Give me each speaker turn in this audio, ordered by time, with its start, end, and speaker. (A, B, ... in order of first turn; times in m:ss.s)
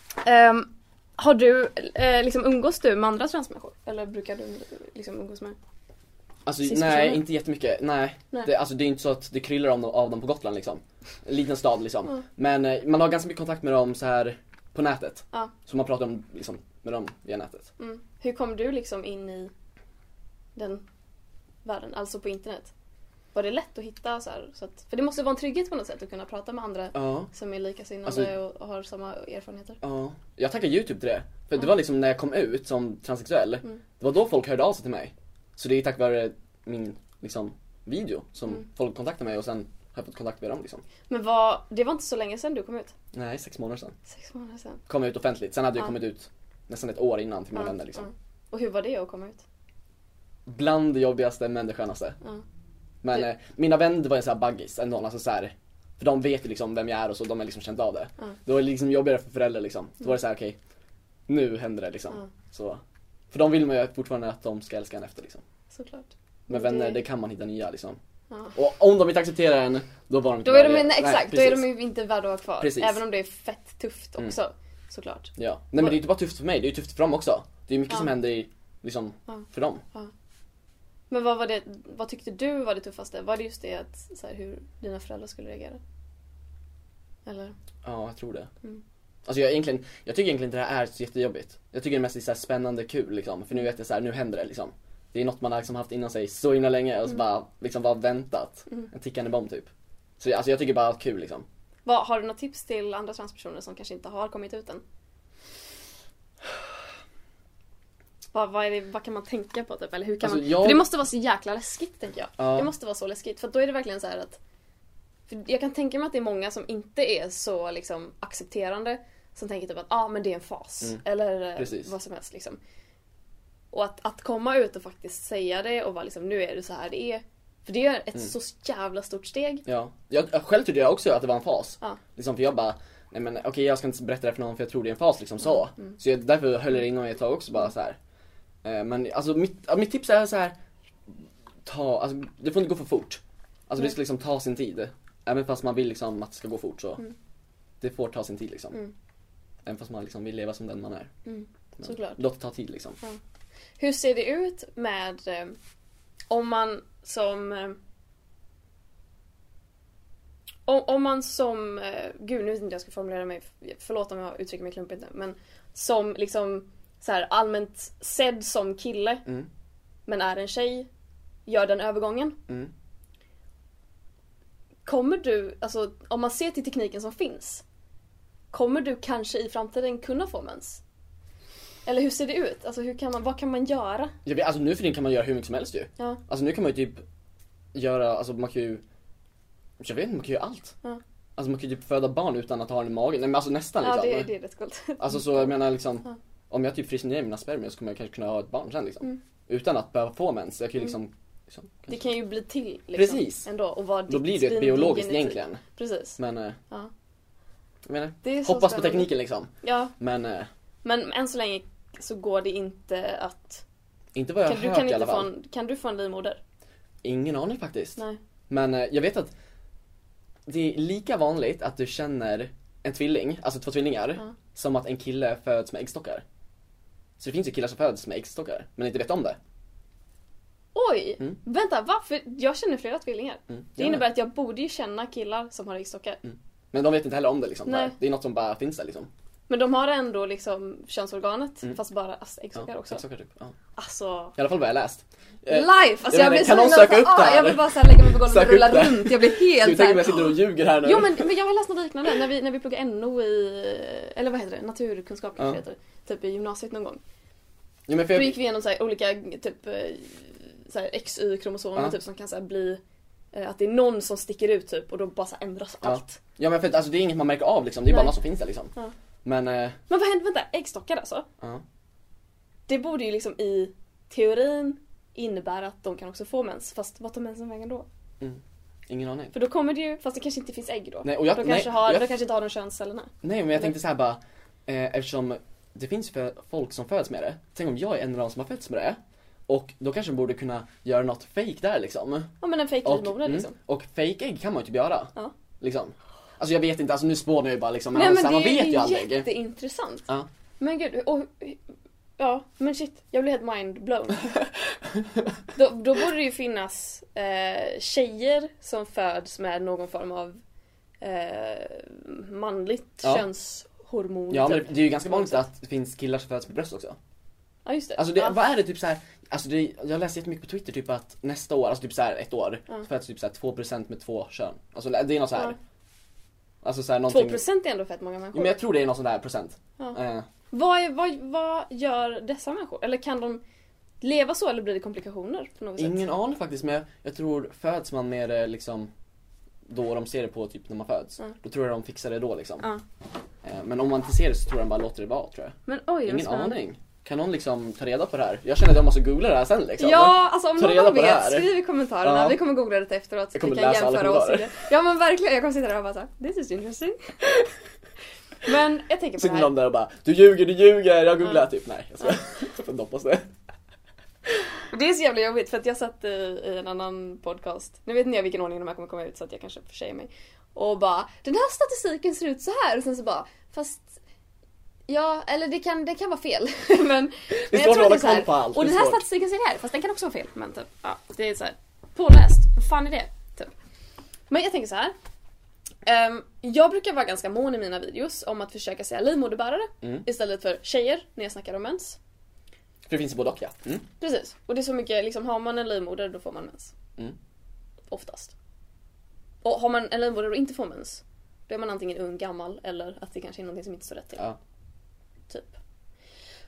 0:00.2-0:05.6 A
0:06.5-0:17.7 B
0:06.6-0:07.2 A
0:17.8-0:19.5 A
0:20.6-0:20.8 A
0:21.6-0:22.7 A
0:23.3-0:29.8 A
0:26.9-0:27.3 B
0:28.0-0:28.3 B
0:29.8-0:40.8 B
0:41.1-0:42.9 A
0:43.1-0:44.0 B
0:44.1-0:44.8 A
0:44.9-0:48.1 B
0:47.6-0:49.4 A
0:50.5-0:52.2 B
0:53.0-1:00.6 B
1:01.3-1:05.4 B
1:05.7-1:07.0 A
1:06.5-1:08.0 B
1:08.6-1:11.7 B
1:10.4-1:16.0 A
1:12.6-1:13.0 B
1:15.4-1:19.8 B
1:19.3-1:20.1 A
1:21.1-1:25.8 A
1:27.3-1:27.6 A
1:27.8-1:28.5 B
1:29.3-1:39.7 B
1:40.2-1:41.5 B
1:41.9-1:44.8 A
1:48.3-1:54.4 A
1:50.2-1:50.8 B
1:52.4-1:52.7 B
1:55.3-2:02.6 A
2:01.6-2:01.9 B
2:03.7-2:09.6 A
2:09.7-2:18.0 B
2:18.6-2:20.6 B
2:21.1-2:27.1 B
2:27.8-2:28.8 B
2:29.6-2:31.1 B
2:31.3-2:32.2 A
2:31.8-2:33.0 B
2:33.8-2:35.6 A
2:36.3-2:37.8 A
2:40.7-2:49.2 A
2:50.1-2:50.9 A
2:51.5-2:52.4 A
2:54.9-2:57.6 A
2:58.5-3:00.8 A
3:01.9-3:04.2 A
3:04.2-3:07.0 B
3:07.7-3:08.8 B
3:09.8-3:10.8 B
3:11.4-3:14.3 B
3:13.8-3:15.5 A
3:15.0-3:22.1 B
3:21.9-3:26.2 A
3:22.9-3:23.5 B
3:24.1-3:25.6 B
3:26.2-3:26.6 B
3:27.9-3:30.5 B
3:28.2-3:29.1 A
3:29.6-3:29.9 A
3:30.8-3:33.6 A
3:34.1-3:35.3 B
3:34.4-3:36.4 A
3:37.0-3:39.3 B
3:40.5-3:46.2 B
3:47.2-3:49.4 B
3:50.8-3:56.2 A
3:53.5-3:54.1 B
3:56.2-3:59.1 B
3:57.7-3:58.0 A
3:59.5-4:03.0 A
4:02.6-4:03.5 B
4:03.8-4:04.4 A
4:04.4-4:11.3 B
4:05.5-4:17.0 A
4:17.9-4:18.4 B
4:18.1-4:22.8 A
4:23.3-4:26.2 A
4:25.8-4:28.7 B
4:27.9-4:28.2 A
4:29.2-4:29.8 B
4:29.9-4:31.3 A
4:32.7-4:37.9 A
4:38.2-4:39.3 B
4:39.3-4:43.6 A
4:41.0-4:42.1 B
4:43.2-4:52.3 B
4:52.4-4:53.6 A
4:52.8-4:59.3 B
4:57.9-5:00.1 A
5:00.6-5:01.6 A
5:02.2-5:04.4 A
5:05.6-5:10.4 A
5:11.0-5:15.4 A
5:14.3-5:17.0 B
5:17.6-5:18.4 A
5:18.0-5:25.6 B
5:26.6-5:27.4 B
5:27.1-5:28.6 A
5:28.3-5:30.3 B
5:30.5-5:33.4 A
5:34.0-5:36.1 A
5:35.8-5:38.9 B
5:39.7-5:42.7 B
5:43.4-5:51.5 B
5:45.7-5:46.6 A
5:49.8-5:57.2 A
5:52.0-5:52.4 B
5:53.4-5:54.5 B
5:58.4-5:59.5 A
5:59.2-6:03.3 B
6:04.7-6:14.0 A
6:14.9-6:23.5 A
6:17.5-6:19.0 B
6:24.3-6:24.9 A
6:25.8-6:32.0 A
6:32.9-6:33.9 B
6:34.0-6:36.7 A
6:37.9-6:38.3 A
6:39.4-6:44.3 A
6:45.3-6:45.5 A